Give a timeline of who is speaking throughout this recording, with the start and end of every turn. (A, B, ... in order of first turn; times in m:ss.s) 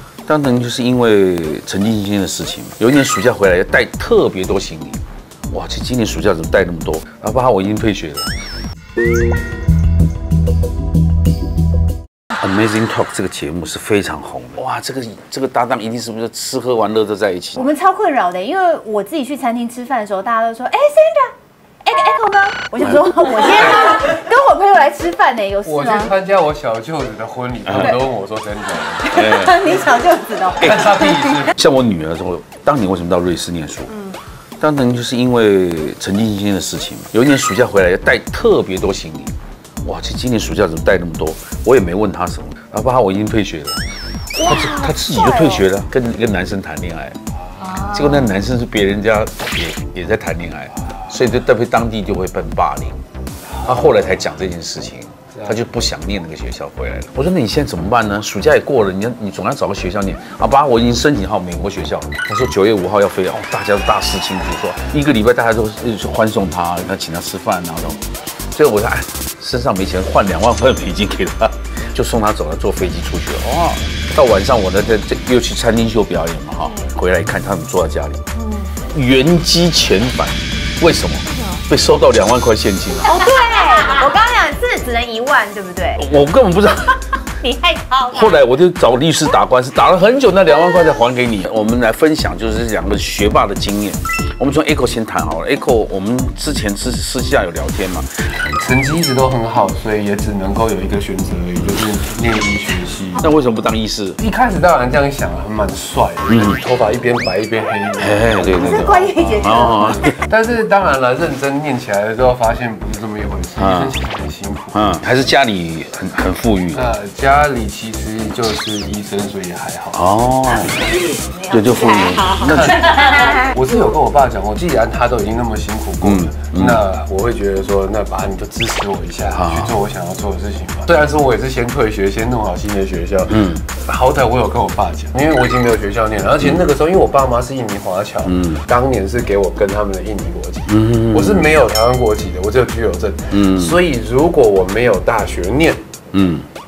0:00.3-0:08.3 A
0:12.4-0:17.7 A
0:17.6-0:21.3 B
0:21.8-0:26.1 B
0:25.6-0:29.2 C
0:29.0-0:31.4 B
0:29.1-0:29.8 A
0:30.6-0:31.5 C
0:30.6-0:34.0 A
0:34.6-0:39.3 A
0:39.8-0:43.8 A
0:44.4-0:47.2 A
0:44.4-0:45.7 B
0:47.6-0:48.2 B
0:47.7-0:53.0 A
0:53.6-1:18.2 A
1:18.4-1:18.7 B
1:18.8-1:23.2 A
1:23.0-1:26.1 B
1:26.0-1:27.0 A
1:27.4-1:28.4 B
1:28.1-1:38.1 A
1:38.6-1:43.3 C
1:43.2-1:44.2 A
1:44.2-1:54.8 C
1:46.3-1:46.6 A
1:48.0-1:50.1 A
1:48.5-1:50.1 B
1:53.6-1:54.0 A
1:54.7-1:56.9 A
1:56.7-2:00.0 C
1:59.9-2:03.0 A
2:02.3-2:25.8 C
2:06.0-2:06.8 A
2:09.3-2:09.8 A
2:13.3-2:13.6 A
2:18.3-2:18.6 A
2:20.7-2:21.5 A
2:23.3-2:23.8 A
2:26.1-2:26.5 A